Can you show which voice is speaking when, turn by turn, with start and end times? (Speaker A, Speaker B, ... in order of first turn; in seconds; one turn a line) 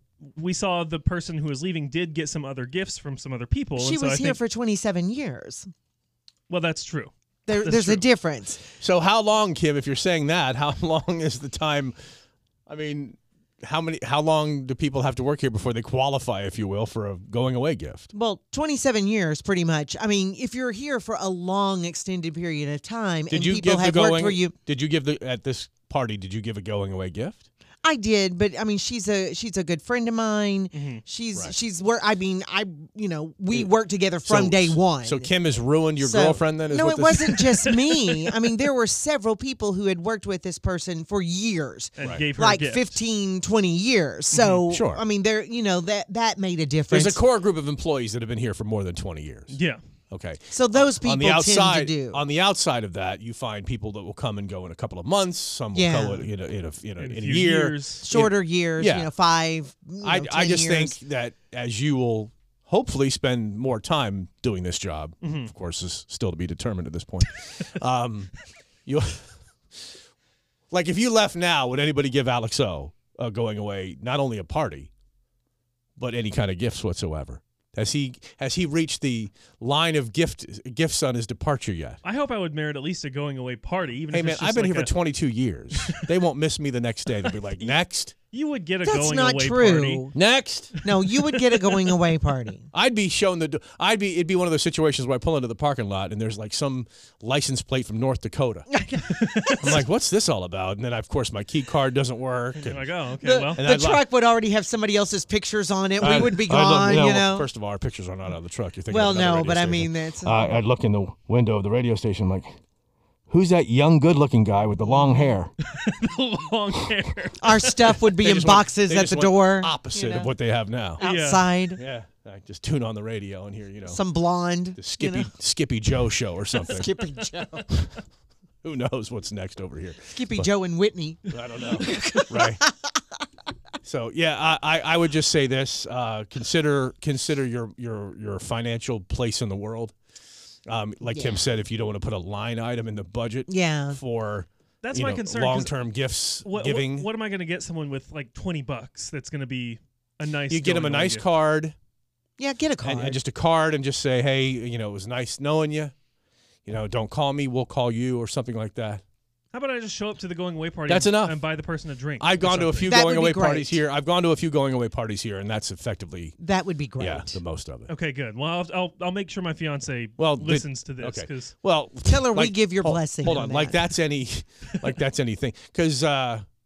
Speaker A: 0.2-4.4
Speaker B: 3.8-5.7
Speaker A: 6.5-8.0
Speaker B: 7.5-8.6
Speaker C: 8.8-12.0
Speaker C: 12.7-18.1
Speaker B: 18.1-24.5
Speaker C: 23.3-27.4
Speaker B: 27.8-35.3
Speaker A: 30.7-31.0
Speaker C: 34.2-37.7
Speaker B: 36.0-47.2
Speaker A: 42.0-42.9
Speaker C: 42.0-42.2
Speaker A: 44.3-44.6
Speaker C: 44.7-45.0
Speaker C: 46.9-49.6
Speaker A: 49.5-49.8
Speaker C: 50.1-59.1
Speaker B: 50.5-52.2
Speaker B: 55.7-56.3
Speaker A: 57.0-58.0
Speaker B: 58.0-61.0
Speaker C: 60.0-70.0
Speaker A: 65.2-65.5
Speaker C: 70.7-74.9
Speaker C: 76.0-82.0
Speaker A: 82.0-84.9
Speaker C: 84.1-88.2
Speaker A: 85.8-86.1
Speaker A: 88.3-90.0
Speaker B: 88.8-90.2
Speaker C: 90.1-90.8
Speaker B: 90.8-92.7
Speaker A: 91.4-91.9
Speaker C: 92.7-98.7
Speaker B: 98.7-99.7
Speaker A: 99.2-99.7
Speaker C: 99.6-102.9
Speaker A: 102.6-103.6
Speaker B: 103.2-107.5
Speaker C: 103.5-104.0
Speaker C: 106.0-112.6
Speaker B: 108.9-110.5
Speaker C: 113.3-115.5
Speaker B: 115.0-115.3
Speaker A: 115.7-118.0
Speaker B: 117.4-120.3
Speaker C: 118.2-121.1
Speaker B: 121.0-121.8
Speaker A: 121.0-121.5
Speaker C: 121.8-124.0
Speaker B: 123.9-125.3
Speaker C: 124.8-127.0
Speaker B: 126.7-127.7
Speaker C: 127.7-128.0
Speaker C: 128.6-130.5
Speaker B: 130.1-132.7
Speaker C: 131.3-132.6
Speaker C: 133.8-140.0
Speaker C: 140.7-147.1
Speaker B: 141.1-141.4
Speaker B: 143.5-144.0
Speaker A: 144.8-145.8
Speaker A: 146.4-151.2
Speaker C: 150.5-151.8
Speaker B: 152.4-153.2
Speaker C: 152.8-155.9
Speaker C: 156.7-159.0
Speaker A: 159.5-162.9
Speaker C: 160.9-161.4
Speaker C: 162.2-166.3
Speaker B: 162.9-163.8
Speaker B: 166.4-167.4
Speaker C: 167.0-167.9
Speaker A: 167.9-171.5
Speaker C: 170.2-176.5
Speaker B: 172.1-173.8